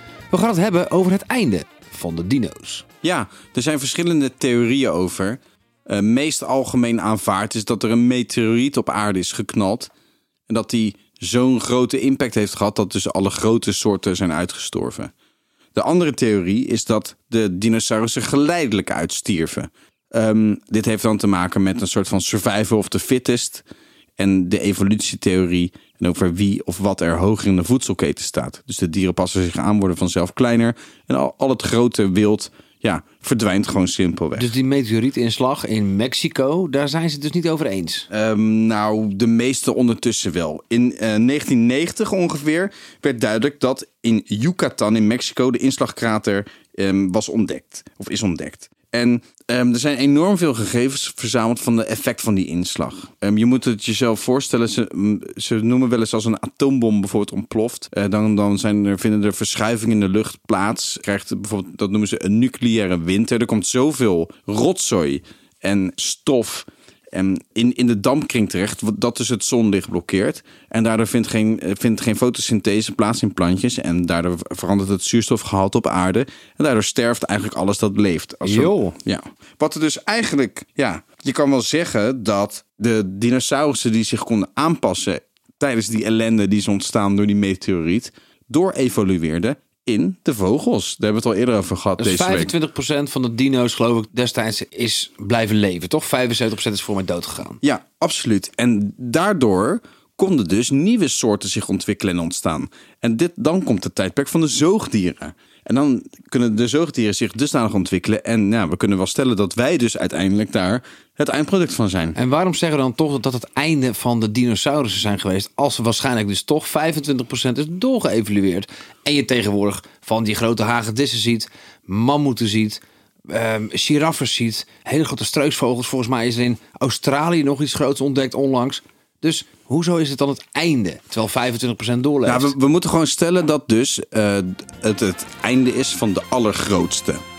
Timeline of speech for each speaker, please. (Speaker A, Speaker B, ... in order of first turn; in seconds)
Speaker A: 0.3-2.8, 34.3-38.1, 78.4-78.9, 92.0-97.6, 112.2-132.5
Speaker B: 3.0-9.9, 10.5-15.1, 15.7-23.6, 24.2-34.5, 38.1-92.5, 97.6-112.2, 132.2-137.2